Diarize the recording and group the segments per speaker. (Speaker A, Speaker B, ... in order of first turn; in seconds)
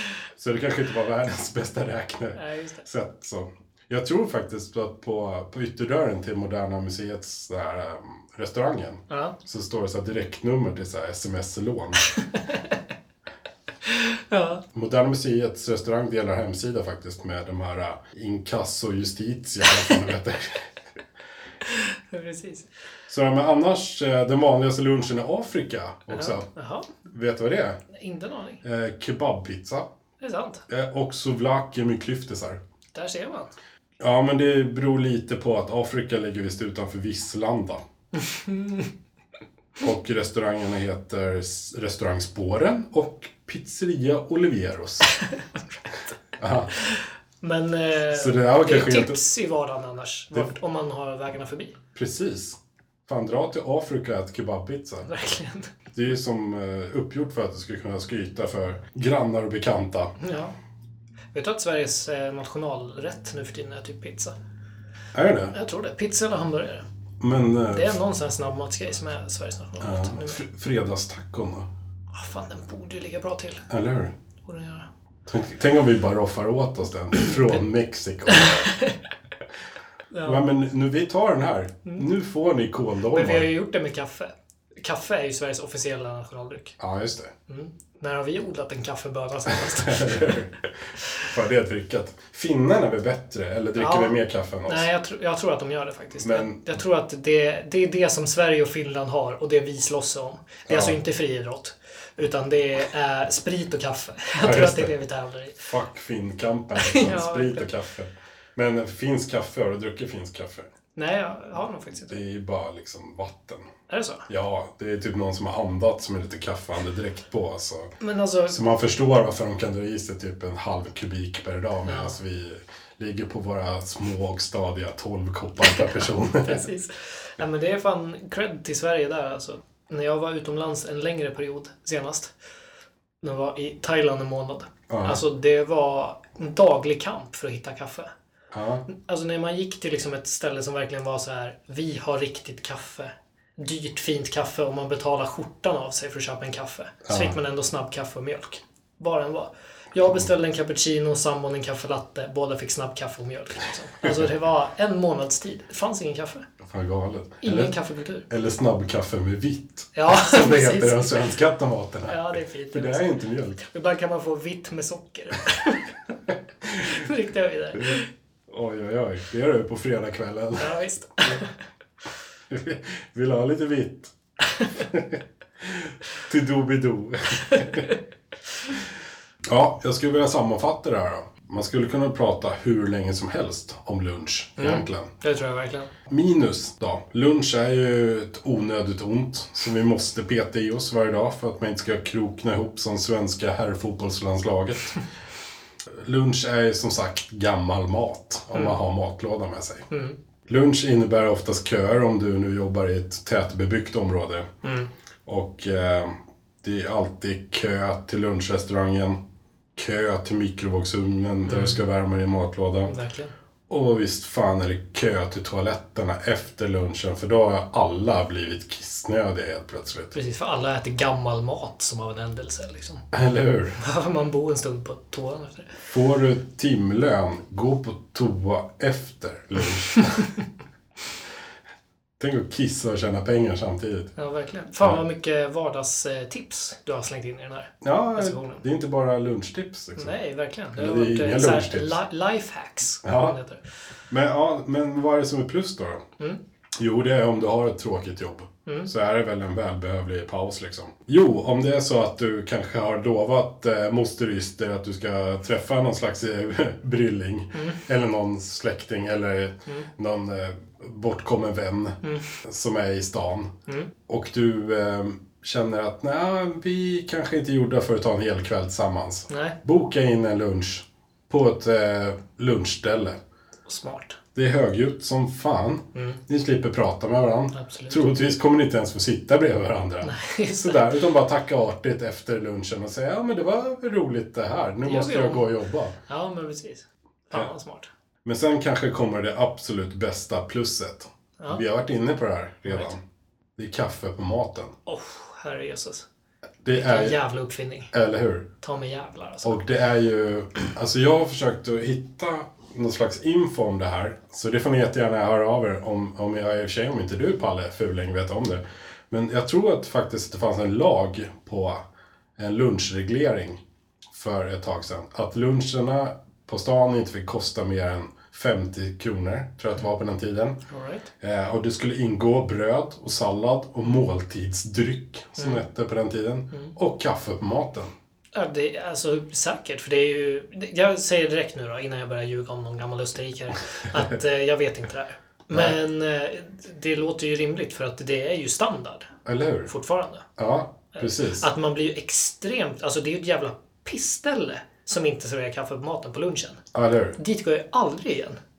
Speaker A: 0.4-12.1, 14.7-20.7, 23.1-26.5, 27.1-27.8, 28.6-29.9, 30.7-32.6, 34.0-37.8, 39.8-45.1, 46.4-46.7, 48.1-49.2, 52.0-55.1, 56.0-60.1, 65.1-65.5, 67.2-68.0, 69.8-71.7, 73.7-74.1, 75.3-78.7, 80.2-83.5, 86.8-87.3, 89.5-90.6, 91.2-94.9, 96.2-96.7, 100.7-101.0, 104.4-104.9, 105.7-110.7, 112.1-113.7, 114.3-117.9, 118.5-126.7, 134.9-135.2, 138.5-138.9, 147.1-147.3, 156.6-157.8, 158.3-163.6, 166.7-167.0, 168.5-171.4, 172.5-174.1, 174.7-177.9, 179.4-185.1, 186.1-195.0, 195.9-199.9, 200.5-204.5, 205.3-209.2, 209.8-212.9, 213.7-220.1, 223.1-223.8, 225.9-230.3, 232.2-234.1, 237.8-240.2, 240.8-242.0, 243.0-243.4, 244.1-246.0, 246.8-263.5, 264.1-273.2, 274.4-286.0, 288.2-293.0, 293.6-294.7, 296.6-297.2, 297.9-298.5, 299.4-311.8, 312.4-320.6, 321.2-327.9, 339.2-339.7, 340.4-341.5, 346.7-347.2
Speaker B: 2.4-2.9, 9.1-9.4, 13.9-14.6, 21.7-22.7, 26.1-26.9, 27.9-28.6, 30.2-30.6, 32.9-33.5, 38.2-38.9, 46.9-51.8, 55.0-55.7, 60.2-60.5, 61.3-64.3, 65.5-66.9, 67.7-70.4, 72.1-73.7, 74.5-74.9, 78.3-79.0, 80.1-80.4, 83.1-86.8, 87.5-90.4, 93.8-94.2, 94.7-105.7, 106.8-107.7, 111.0-112.2, 113.9-114.3, 118.0-118.6, 121.9-122.2, 125.7-132.3, 133.2-138.1, 138.9-156.5, 157.4-158.3, 159.9-161.2, 162.1-163.1, 163.6-165.9, 166.8-168.1, 170.6-171.6, 174.5-174.9, 177.4-178.0, 184.6-185.9, 199.9-200.2, 204.6-204.9, 211.5-211.8, 212.9-213.3, 220.1-223.1, 223.8-225.8, 234.2-238.6, 240.0-243.6, 257.6-257.8, 262.0-262.4, 269.3-269.6, 273.7-274.2, 277.5-278.0, 280.0-281.0, 284.8-285.5, 286.1-287.9, 294.9-296.1, 296.7-297.9, 298.6-299.6, 320.7-321.1, 325.4-325.6, 328.3-339.1, 339.7-340.2, 340.9-346.6, 347.2-348.4